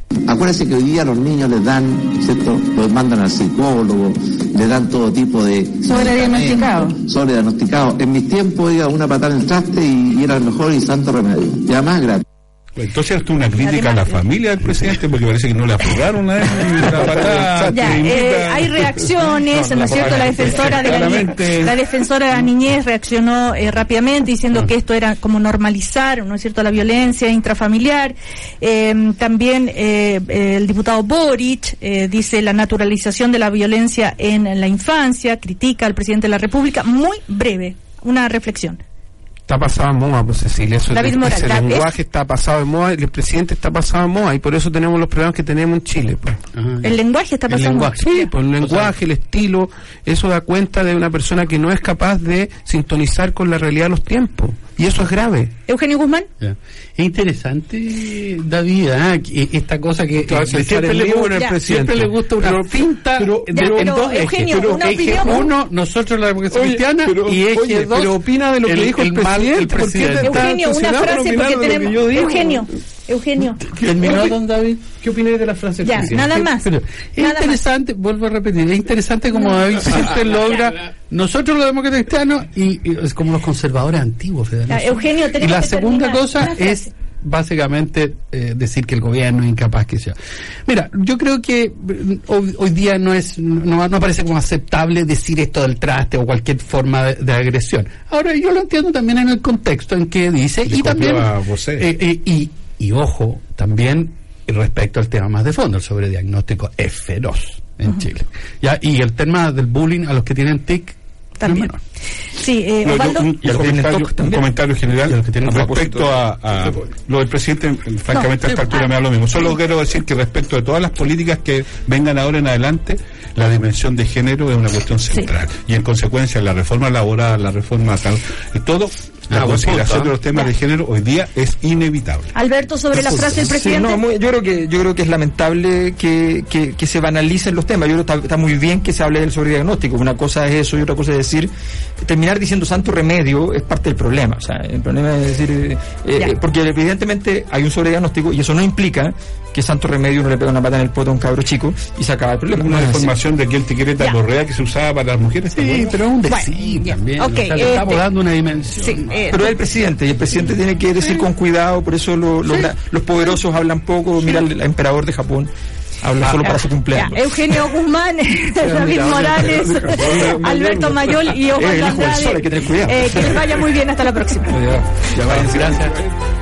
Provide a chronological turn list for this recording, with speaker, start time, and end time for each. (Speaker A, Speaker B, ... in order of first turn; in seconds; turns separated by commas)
Speaker A: 0.3-12.2, Speaker B: 5.9-6.9, Speaker C: 12.8-21.7, Speaker B: 13.6-14.2, Speaker D: 16.7-18.0, Speaker B: 17.7-38.8, Speaker D: 19.8-20.3, Speaker D: 39.5-46.4, Speaker B: 40.9-41.9, Speaker E: 46.5-47.0, Speaker B: 46.8-48.3, Speaker E: 47.5-49.0, Speaker D: 48.0-55.5, Speaker B: 55.7-56.3, Speaker E: 56.4-70.5, Speaker D: 60.2-65.3, Speaker B: 63.5-65.5, Speaker D: 66.5-72.7, Speaker B: 70.2-73.6, Speaker E: 73.7-75.0, Speaker D: 73.8-74.4, Speaker D: 75.0-76.5, Speaker B: 75.8-77.6, Speaker E: 75.9-111.8, Speaker B: 79.3-79.6, Speaker B: 84.7-86.9, Speaker C: 100.7-102.0, Speaker B: 111.4-111.7, Speaker B: 112.3-113.3, Speaker C: 112.8-132.3, Speaker F: 113.4-114.5, Speaker E: 115.1-115.8, Speaker F: 115.4-116.2, Speaker B: 118.1-119.5, Speaker E: 129.3-130.1, Speaker B: 132.3-134.0, Speaker F: 133.1-153.1, Speaker C: 152.5-156.0, Speaker E: 155.5-159.2, Speaker B: 156.3-158.1, Speaker B: 158.8-159.6, Speaker F: 159.3-165.5, Speaker F: 166.0-167.7, Speaker B: 166.3-174.6, Speaker E: 168.6-170.3, Speaker D: 168.7-171.2, Speaker F: 171.6-173.3, Speaker D: 175.0-175.8, Speaker E: 175.1-175.9